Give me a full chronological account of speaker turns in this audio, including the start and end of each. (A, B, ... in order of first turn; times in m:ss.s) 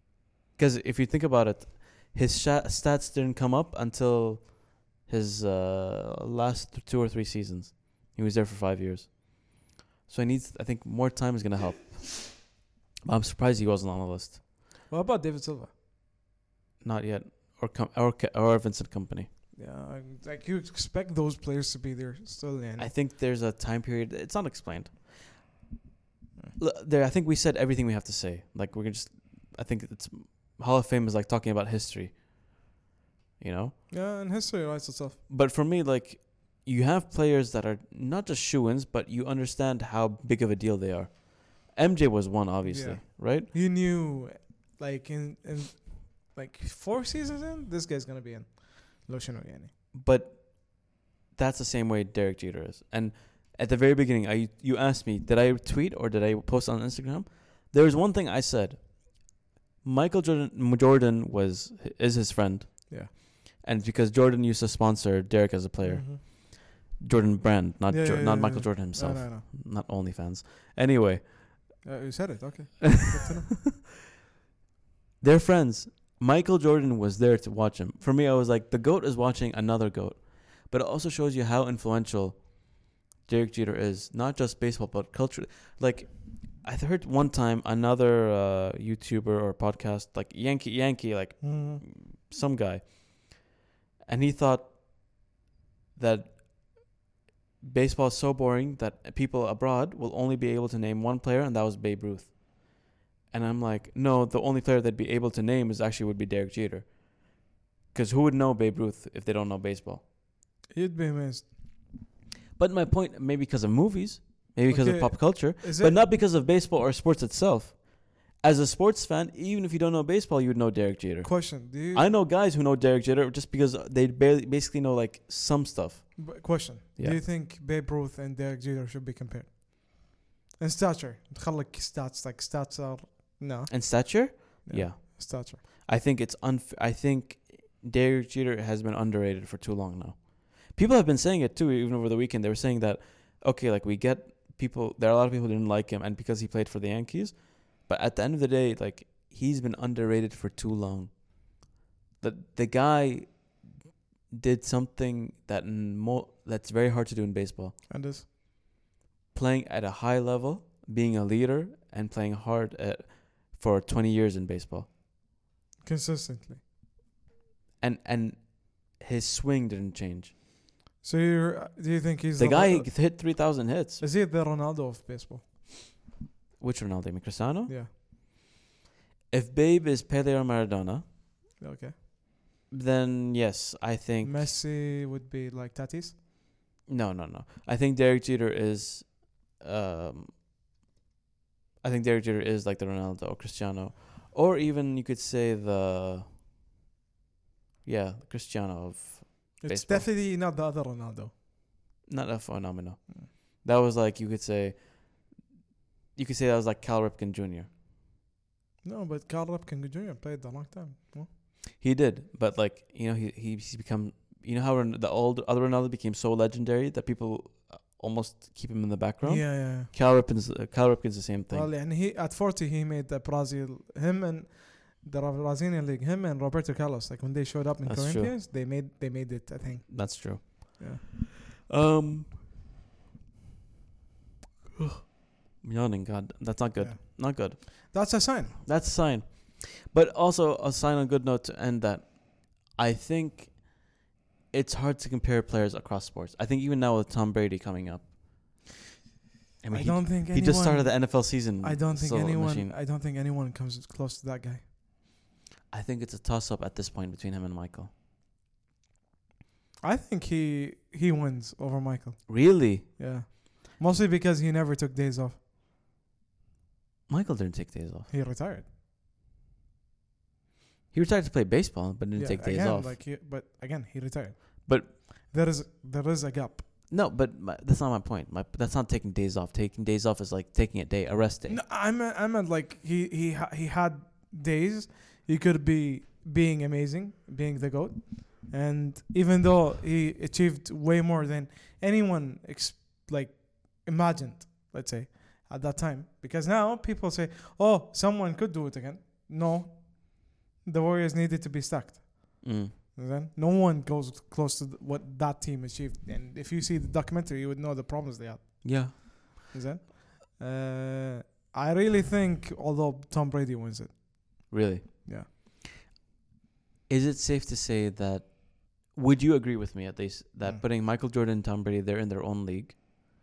0:00.6-0:12.5 A
0:13.0-0:14.4 A
0:14.9-0:15.7 B
0:16.8-0:19.3 A
0:19.5-0:22.9 B
0:22.8-0:25.5 A
0:26.6-0:32.2 A
0:33.4-0:33.8 A
0:33.9-0:35.2 B
0:35.3-0:43.5 A
0:42.6-0:49.7 B
0:49.9-1:11.8 A
1:05.8-1:06.2 B
1:07.9-1:09.4 B
1:11.8-1:13.5 B
1:15.2-1:33.5 A
1:31.4-1:31.8 B
1:34.1-1:35.1 A
1:36.0-1:36.9 A
1:37.6-1:50.1 A
1:50.7-1:51.6 B
1:52.6-2:07.2 A
1:54.7-1:56.0 B
2:01.2-2:02.1 B
2:06.2-2:15.6 B
2:13.7-2:31.7 A
2:32.2-2:33.6 A
2:34.3-2:37.8 A
2:37.9-2:38.3 B
2:39.3-2:44.9 A
2:45.8-2:46.6 B
2:47.8-2:50.3 A
2:51.0-2:55.6 B
2:52.4-2:54.0 A
2:56.6-2:57.8 A
2:59.3-3:01.1 A
3:01.6-3:02.0 B
3:02.7-3:04.5 A
3:04.2-3:06.2 B
3:06.9-3:10.4 A
3:11.8-3:16.3 A
3:17.8-3:20.1 A
3:19.6-3:21.3 B
3:22.1-3:25.5 A
3:26.2-3:27.7 A
3:28.8-3:31.3 B
3:31.8-3:41.7 A
3:39.2-3:39.9 B
3:41.5-3:51.0 B
3:47.8-3:48.4 A
3:49.9-3:51.1 A
3:51.7-3:52.4 A
3:54.8-4:03.9 A
3:56.8-3:58.6 B
4:04.5-4:08.2 A
4:09.6-4:12.8 A
4:09.7-4:14.7 B
4:15.7-4:17.9 A
4:19.8-4:25.4 B
4:22.3-4:22.9 A
4:27.1-4:28.1 A
4:28.1-4:28.7 B
4:30.9-4:33.0 A
4:32.2-4:36.7 B
4:34.7-4:34.9 A
4:36.9-4:41.6 A
4:41.5-5:14.5 B
5:02.4-5:02.7 A
5:08.6-5:08.9 A
5:14.5-5:15.3 A
5:16.9-5:22.8 A